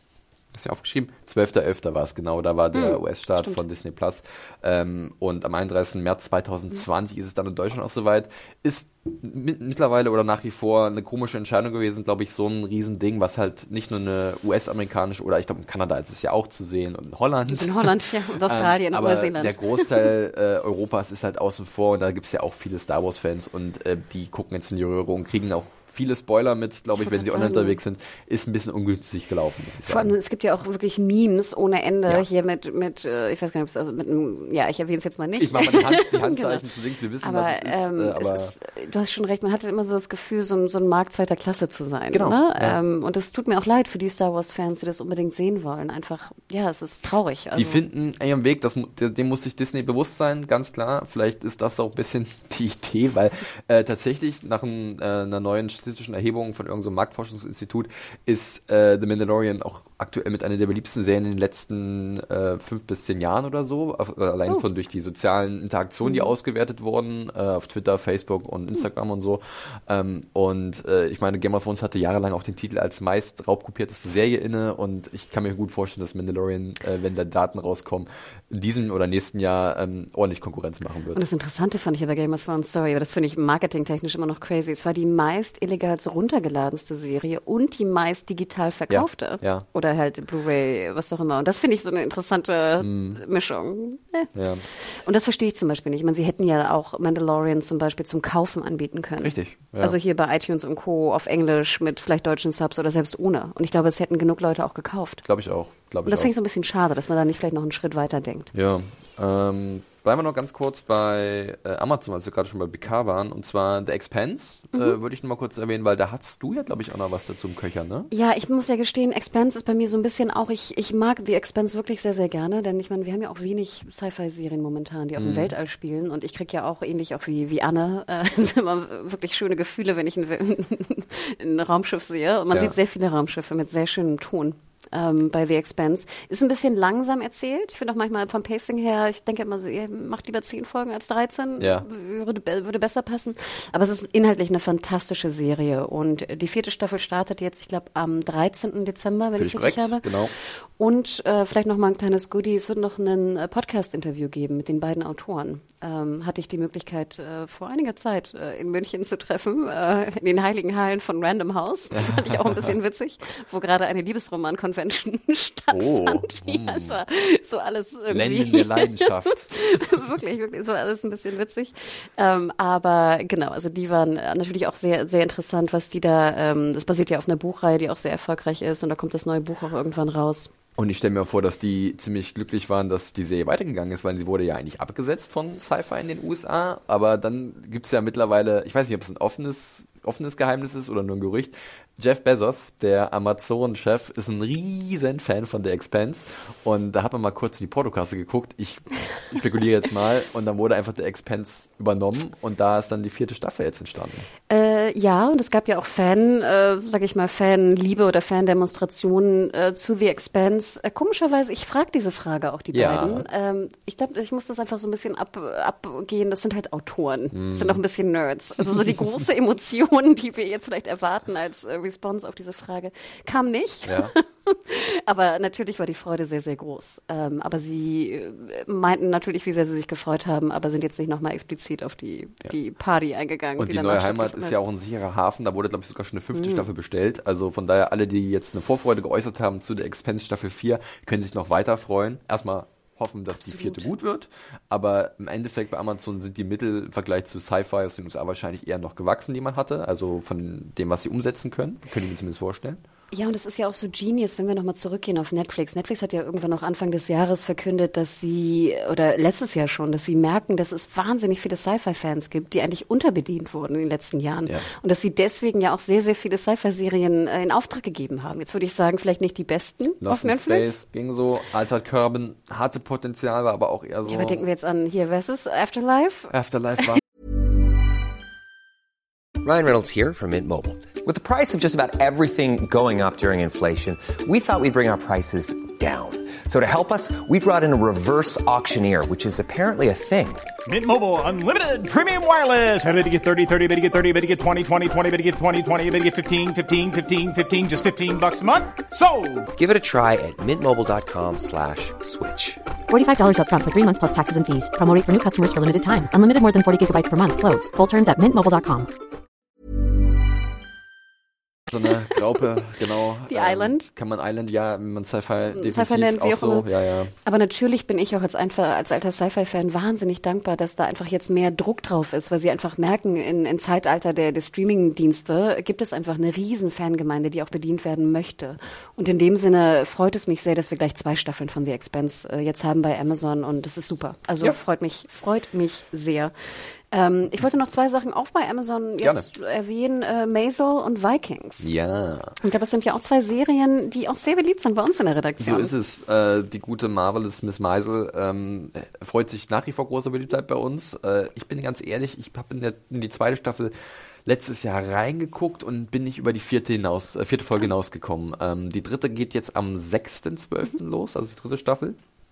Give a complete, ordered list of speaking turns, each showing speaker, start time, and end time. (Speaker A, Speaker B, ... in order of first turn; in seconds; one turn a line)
Speaker A: 0.5-30.1
Speaker B: 2.7-3.6
Speaker B: 17.5-20.0
Speaker B: 27.0-27.8
Speaker B: 29.9-36.6
Speaker A: 35.4-38.5
Speaker B: 37.2-47.8
Speaker A: 42.1-42.8
Speaker A: 47.5-81.2
Speaker B: 66.0-66.3
Speaker B: 81.1-105.2
Speaker A: 88.9-89.7
Speaker A: 92.8-93.2
Speaker A: 94.3-94.6
Speaker A: 99.2-100.0
Speaker A: 105.2-106.3
Speaker B: 106.0-108.5
Speaker A: 108.5-118.1
Speaker B: 118.1-150.1
Speaker A: 125.2-125.5
Speaker A: 141.6-141.9
Speaker A: 149.4-150.3
Speaker B: 150.8-180.5
Speaker A: 161.9-162.7
Speaker A: 165.7-167.0
Speaker A: 168.1-169.8
Speaker A: 180.8-204.3
Speaker B: 204.5-234.6
Speaker A: 212.7-213.3
Speaker A: 217.3-217.8
Speaker A: 218.8-219.1
Speaker A: 223.9-224.1
Speaker A: 233.6-252.8
Speaker B: 236.3-236.7
Speaker B: 243.3-243.9
Speaker B: 253.1-270.8
Speaker A: 270.0-274.4
Speaker B: 274.1-276.3
Speaker A: 276.3-277.0
Speaker C: 279.4-290.5
Speaker D: 290.7-299.5
Speaker C: 299.5-302.7
Speaker E: 302.9-308.9
Speaker A: 311.7-317.1
Speaker B: 313.3-313.9
Speaker B: 315.5-316.7
Speaker B: 317.2-336.3
Speaker B: 336.9-341.7
Speaker A: 339.0-339.3
Speaker A: 341.6-342.4
Speaker B: 342.4-345.7
Speaker A: 345.4-353.7
Speaker A: 354.3-362.0